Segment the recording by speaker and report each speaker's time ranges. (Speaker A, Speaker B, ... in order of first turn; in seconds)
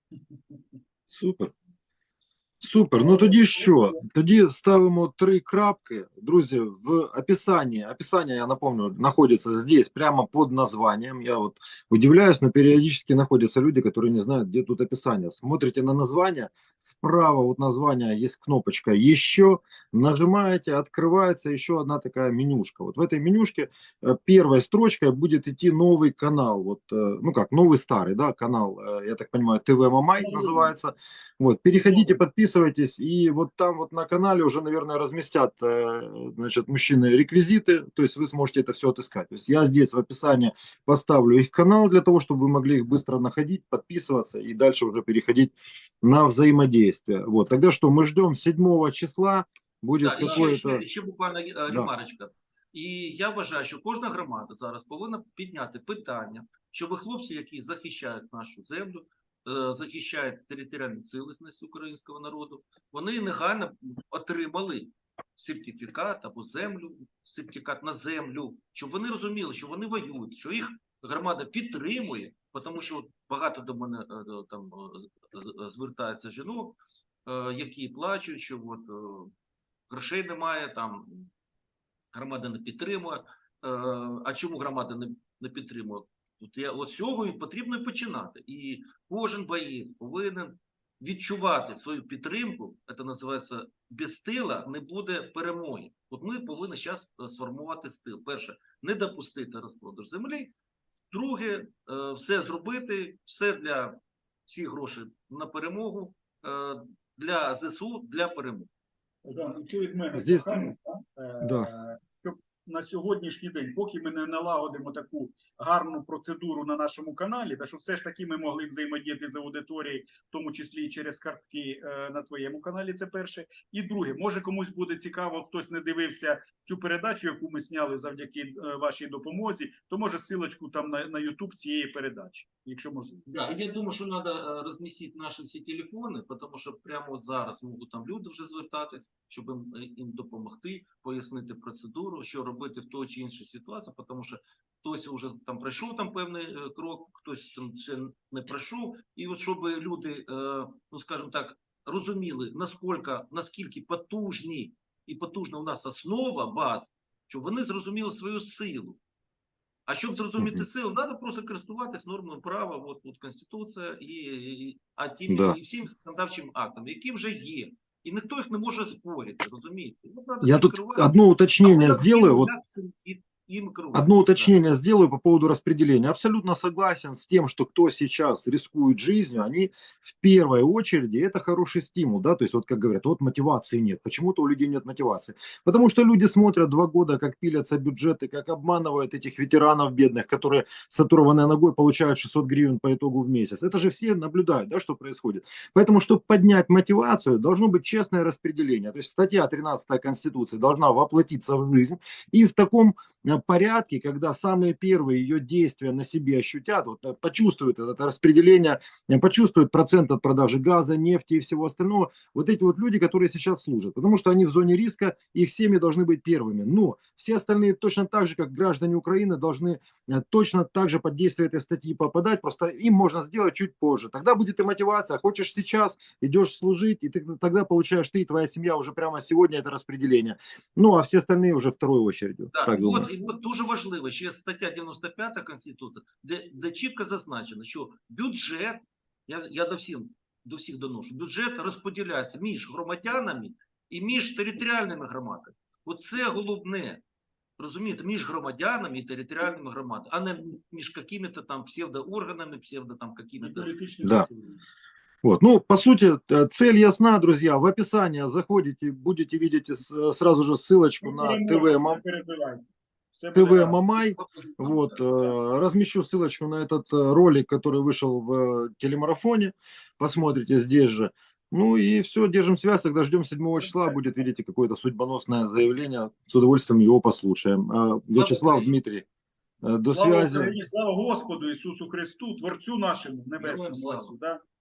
Speaker A: 1.1-1.5, 2.6-50.8, 110.1-110.7, 111.4-111.7, 160.4-160.7, 165.3-165.6, 170.4-172.5, 173.9-233.1, 255.2-262.0, 263.3-279.1, 279.6-280.5
Speaker B: 3.0-4.0, 30.2-30.7, 31.9-32.1, 109.2-133.2, 253.4-254.6, 261.0-264.2, 273.6-274.2, 279.8-284.4
Speaker C: 50.0-79.3, 79.9-81.3, 82.1-100.5, 101.1-108.7, 133.3-159.0, 159.9-174.6, 232.5-247.0, 247.6-253.7, 264.2-265.0, 278.1-278.8, 283.4-284.1